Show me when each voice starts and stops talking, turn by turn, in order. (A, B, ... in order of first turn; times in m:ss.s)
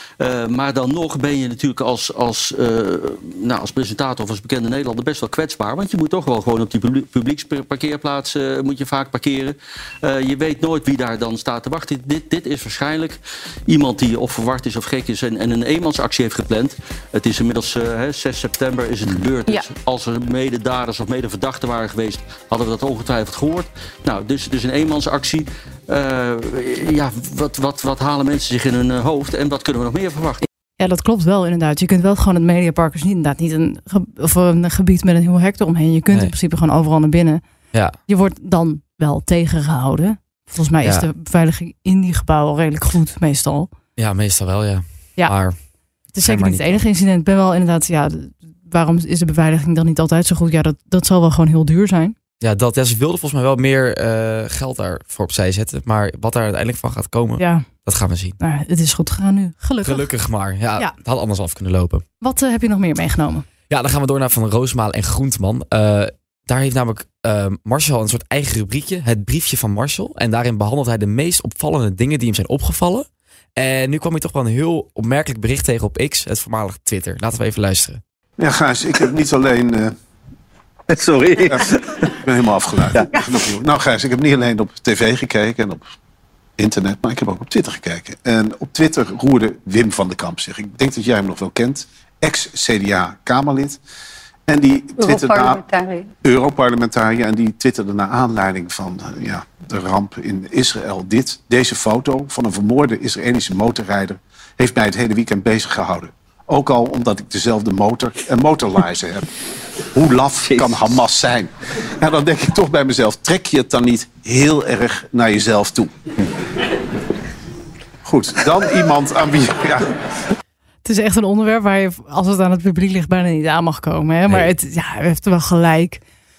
0:00.2-0:30.4 A
0:30.8-0:37.4 B
0:38.1-0:43.7 B
0:40.8-0:41.1 C
0:44.0-0:45.6 C
0:45.2-0:45.4 B
0:46.1-0:52.2 B
0:46.2-0:46.8 C
0:52.4-0:58.4 C
0:57.4-0:57.6 B
0:58.4-1:00.0 B
0:59.8-1:02.0 C
1:02.2-1:03.4 B
1:03.7-1:13.0 C
1:13.6-1:18.0 C
1:18.4-1:19.9 D
1:21.3-1:25.8 D
1:26.6-1:33.8 D
1:34.5-1:35.6 D
1:36.2-1:49.2 D
1:49.9-1:55.9 D
1:58.0-1:59.9 D
2:00.8-2:06.0 B